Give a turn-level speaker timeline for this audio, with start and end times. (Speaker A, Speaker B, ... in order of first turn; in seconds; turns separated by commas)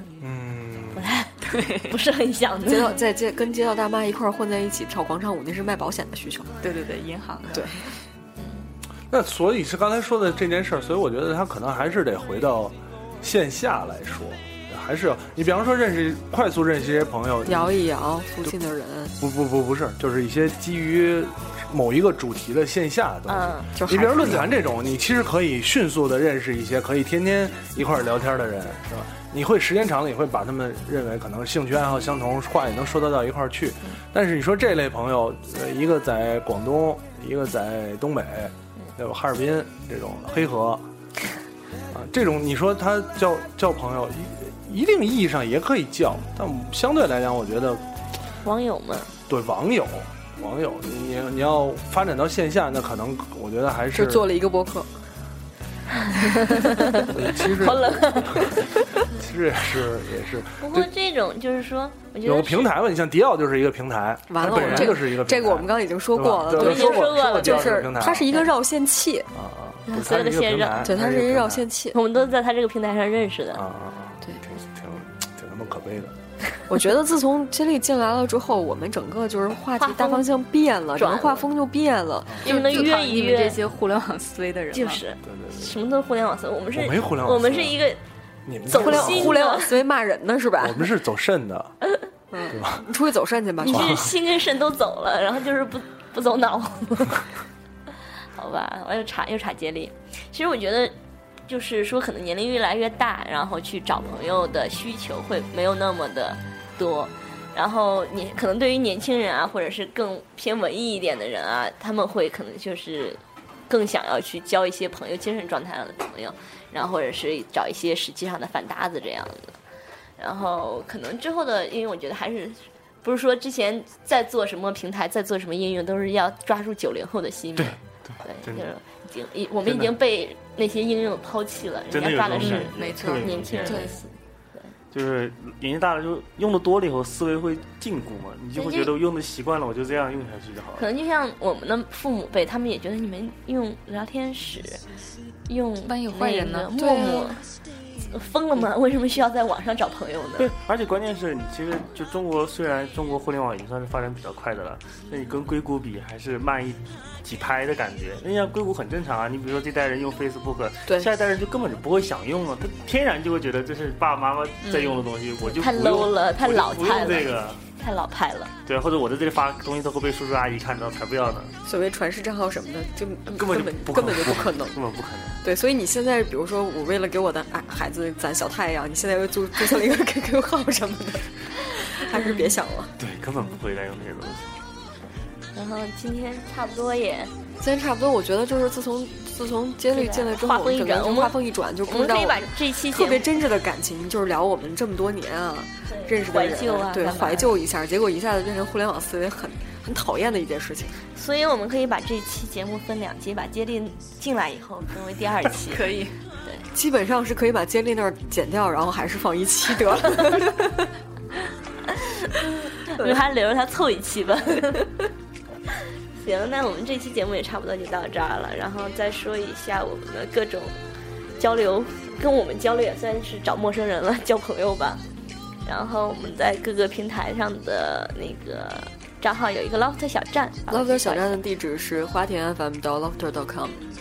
Speaker A: 0.2-1.1, Speaker B: 0.9-3.0, Speaker C: 1.5-1.9, Speaker D: 2.7-6.5, Speaker C: 6.6-7.8, Speaker D: 7.5-7.8, Speaker A: 9.1-17.8, Speaker D: 17.4-19.1, Speaker A: 19.2-40.8, Speaker B: 23.3-23.7, Speaker D: 23.7-24.6, Speaker A: 41.9-47.8, Speaker B: 48.4-49.1, Speaker A: 49.3-54.3, Speaker D: 53.9-54.9, Speaker B: 56.0-59.0, Speaker A: 57.0-60.9, Speaker B: 60.6-62.8, Speaker A: 62.2-68.4, Speaker D: 64.3-69.3, Speaker B: 64.5-64.8, Speaker B: 66.5-68.4, Speaker A: 69.3-71.7, Speaker B: 69.9-70.9, Speaker D: 70.8-72.0, Speaker B: 71.9-73.6, Speaker A: 73.5-76.1, Speaker D: 76.7-82.8, Speaker B: 79.8-80.2, Speaker B: 81.0-81.5, Speaker B: 82.4-83.6, Speaker C: 82.4-85.0, Speaker B: 84.7-88.0, Speaker A: 85.2-85.7, Speaker A: 86.7-87.8, Speaker A: 88.5-89.4, Speaker B: 88.7-89.8, Speaker D: 88.7-90.9, Speaker A: 90.6-91.7, Speaker D: 92.3-94.0, Speaker A: 92.5-92.9, Speaker B: 93.6-97.3, Speaker A: 93.7-94.1, Speaker B: 98.2-100.9, Speaker B: 101.5-119.5, Speaker B: 120.2-134.7, Speaker E: 129.7-129.9, Speaker E: 131.9-133.9, Speaker C: 132.4-134.0, Speaker E: 134.9-140.9, Speaker B: 138.6-138.9, Speaker B: 140.8-144.8, Speaker B: 145.5-147.4, Speaker C: 145.8-147.0, Speaker D: 146.8-147.3, Speaker B: 148.0-150.5, Speaker E: 150.4-167.6, Speaker C: 164.6-165.1, Speaker B: 165.5-168.5, Speaker E: 168.7-171.5, Speaker D: 171.6-174.8, Speaker E: 173.3-175.4, Speaker D: 175.4-182.9, Speaker E: 183.0-184.5, Speaker B: 185.5-187.3, Speaker D: 187.6-201.0, Speaker B: 189.9-193.3, Speaker B: 195.8-197.6, Speaker B: 201.1-206.6, Speaker C: 205.6-206.2, Speaker D: 206.7-210.9, Speaker B: 211.8-215.1, Speaker D: 212.9-213.2, Speaker B: 216.2-220.8, Speaker B: 221.4-225.0, Speaker B: 225.7-231.4, Speaker D: 230.7-233.8